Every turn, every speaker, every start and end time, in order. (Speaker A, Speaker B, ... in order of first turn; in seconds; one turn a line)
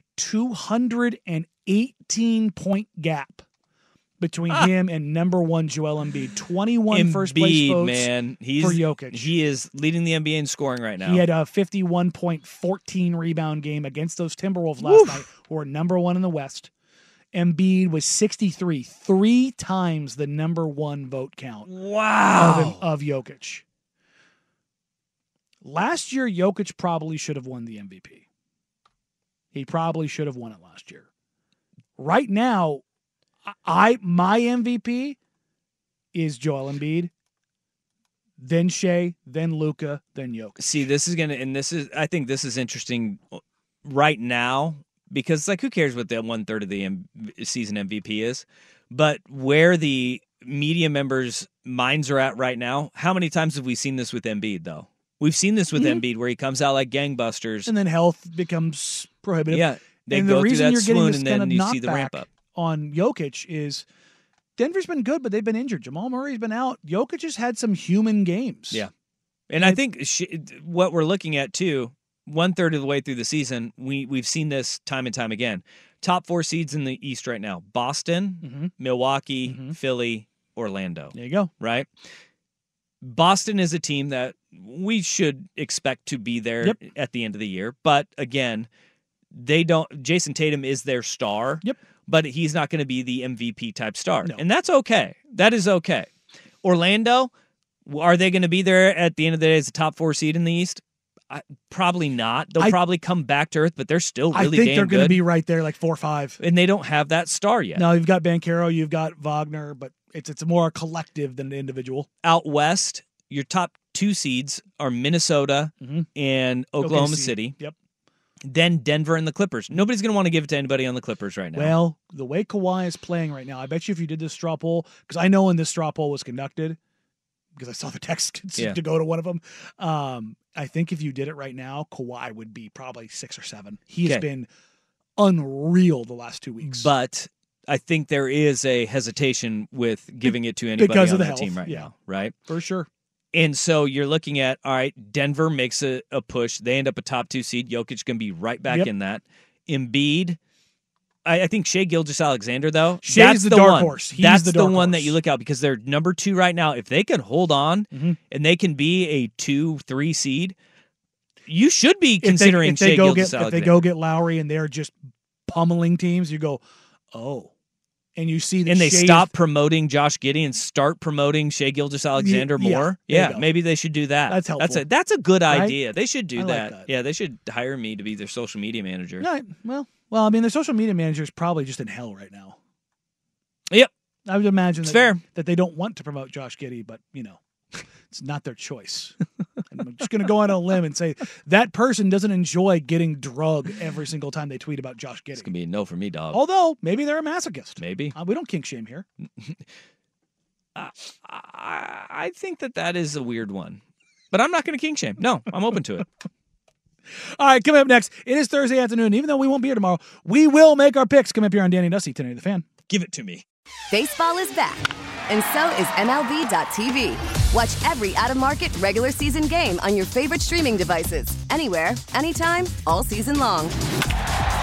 Speaker A: 0.2-3.4
Speaker A: 4.2-9.3
Speaker B: 6.9-11.2
Speaker A: 11.0-16.7
Speaker B: 14.8-15.2
Speaker A: 17.3-21.7
Speaker B: 21.7-22.8
Speaker A: 22.3-23.6
Speaker A: 25.6-28.2
Speaker A: 29.5-31.1
Speaker A: 32.0-32.8
Speaker A: 33.5-35.2
Speaker A: 36.1-37.1
Speaker A: 38.4-40.6
Speaker B: 40.6-57.7
Speaker A: 55.7-56.0
Speaker A: 57.6-63.8
Speaker B: 59.5-62.3
Speaker A: 64.6-68.8
Speaker B: 69.5-81.9
Speaker A: 78.4-78.7
Speaker A: 79.4-79.8
Speaker A: 81.1-81.5
Speaker B: 83.0-88.7
Speaker B: 89.3-96.1
Speaker B: 96.6-97.3
Speaker B: 97.8-105.2
Speaker A: 104.3-106.4
Speaker B: 106.4-107.9
Speaker A: 107.8-112.1
Speaker B: 112.2-117.5
Speaker A: 115.8-116.1
Speaker A: 116.8-117.7
Speaker B: 118.4-121.8
Speaker A: 121.5-126.8
Speaker A: 127.5-134.5
Speaker A: 135.2-136.9
Speaker B: 136.6-142.3
Speaker A: 140.3-141.9
Speaker A: 142.5-142.9
Speaker B: 143.3-150.4
Speaker B: 151.2-160.5
Speaker A: 153.0-155.2
Speaker A: 157.9-158.2
Speaker B: 161.5-163.8
Speaker A: 162.2-164.9
Speaker A: 165.5-166.6
Speaker A: 167.1-167.5
Speaker A: 168.2-169.3
Speaker B: 168.7-179.3
Speaker A: 172.2-173.5
Speaker A: 174.3-174.8
Speaker A: 175.5-175.8
Speaker A: 176.3-176.9
Speaker A: 179.2-182.6
Speaker A: 184.2-187.4
Speaker B: 184.8-185.2
Speaker A: 188.1-189.2
Speaker A: 189.7-195.5
Speaker B: 195.3-196.4
Speaker A: 196.3-199.0
Speaker B: 197.8-198.1
Speaker B: 200.7-203.8
Speaker B: 204.3-206.1
Speaker A: 207.4-212.7
Speaker B: 212.9-213.4
Speaker C: 213.9-223.7